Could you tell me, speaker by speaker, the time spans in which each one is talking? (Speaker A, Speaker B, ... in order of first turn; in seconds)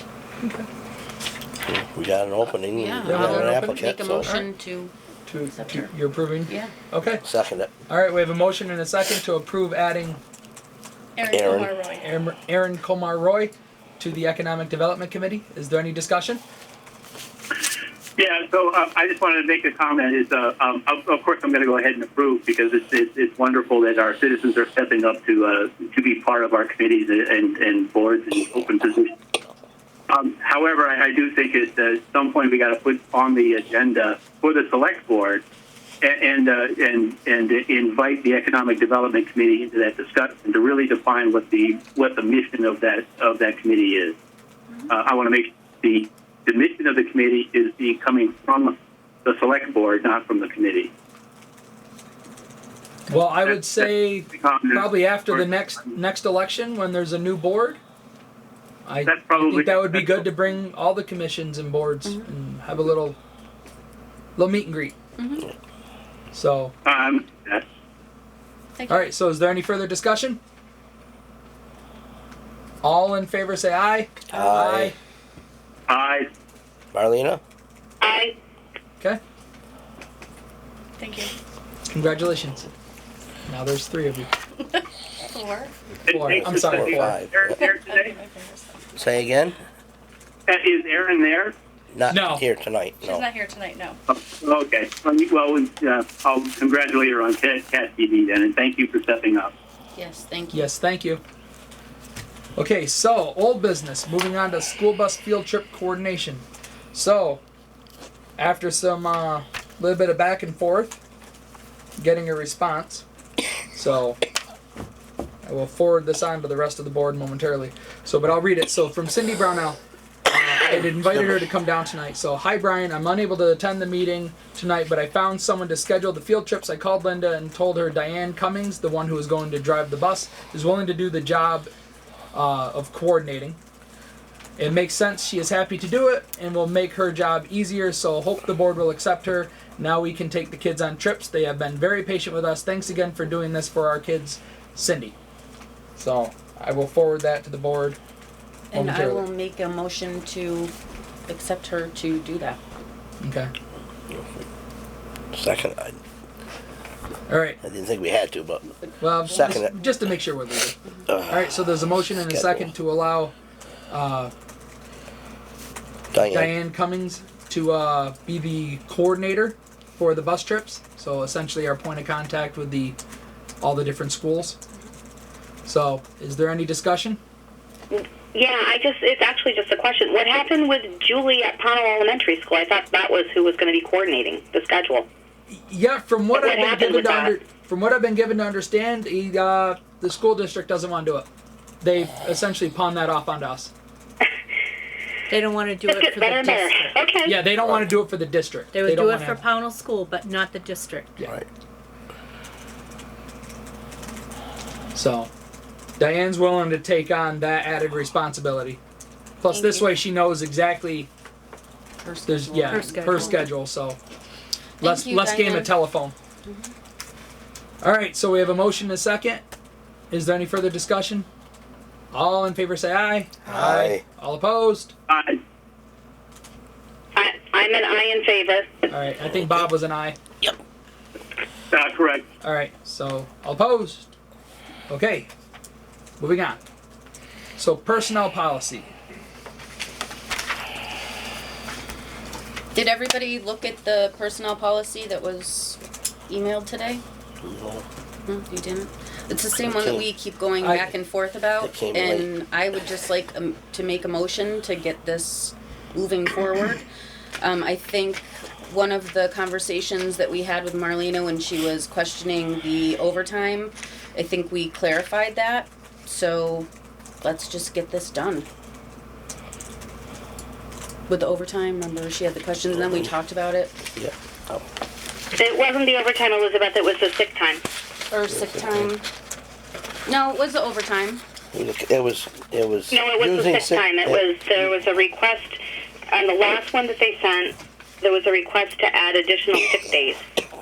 Speaker A: 1.6-4.4, 7.2-7.7, 11.3-11.7, 74.3-74.9, 76.9-77.4, 86.5-87.5, 89.0-89.6, 91.9-93.3, 154.1-154.4, 155.3-156.0, 157.6-158.7, 159.2-159.7, 161.1-162.7, 166.1-166.5, 197.6-197.9, 223.5-224.0, 247.4-247.8, 249.6-250.1, 251.6-252.3, 274.0-274.6, 278.4-278.9, 281.5-284.2
Speaker B: 2.7-4.9, 5.5-5.9, 6.5-6.8, 65.2-65.5, 68.8-69.0, 100.0-100.7, 148.7-150.7, 151.3-152.6, 159.5-159.8, 209.5-210.0, 212.0-213.4, 214.8-215.8, 216.4-216.7, 242.7-247.0, 248.3-256.9, 257.4-266.7, 267.2-268.5, 271.1-273.7, 278.1-279.1, 280.1-281.2
Speaker C: 3.1-3.8, 5.3-7.2, 7.9-10.2, 12.0-16.4, 53.1-57.8, 58.9-63.2, 64.4-65.0, 66.3-66.7, 68.9-70.4, 72.8-75.0, 81.9-82.7, 83.5-84.3, 86.1-87.2, 92.1-92.4, 100.5-101.2, 102.6-107.4, 108.4-111.0, 112.0-113.0, 113.8-114.2, 115.5-131.7, 132.3-133.6, 134.6-145.2, 146.0-148.0, 148.7-149.3, 153.2-153.5, 157.3-157.6, 159.0-160.8, 161.3-163.3, 163.9-164.3, 166.3-173.0, 173.6-174.6, 175.7-177.2, 185.5-191.3, 191.8-193.7, 197.3-199.4, 204.9-205.3, 206.0-208.8, 209.4-211.1, 212.3-214.0, 214.8-216.1, 217.8-219.4, 220.1-221.3, 222.1-224.9, 228.9-230.2, 232.4-234.1, 234.9-235.3, 236.2-236.6, 237.6-238.9, 250.6-250.9
Speaker D: 11.2-12.2, 81.0-81.3, 84.6-85.8, 87.5-89.0, 93.0-94.0
Speaker E: 18.2-29.1, 30.1-35.4, 36.0-44.2, 44.9-50.9, 53.5-55.7, 59.1-60.3, 66.8-67.6, 75.9-76.3, 86.1-88.1, 90.5-91.5, 94.1-99.5, 225.1-225.4, 231.7-232.2
Speaker F: 78.0-78.4, 177.9-185.1, 186.3-187.4, 195.9-197.4, 227.2-228.9, 275.3-277.6, 282.9-290.2
Speaker G: 195.3-197.1, 198.7-201.2, 212.7-213.5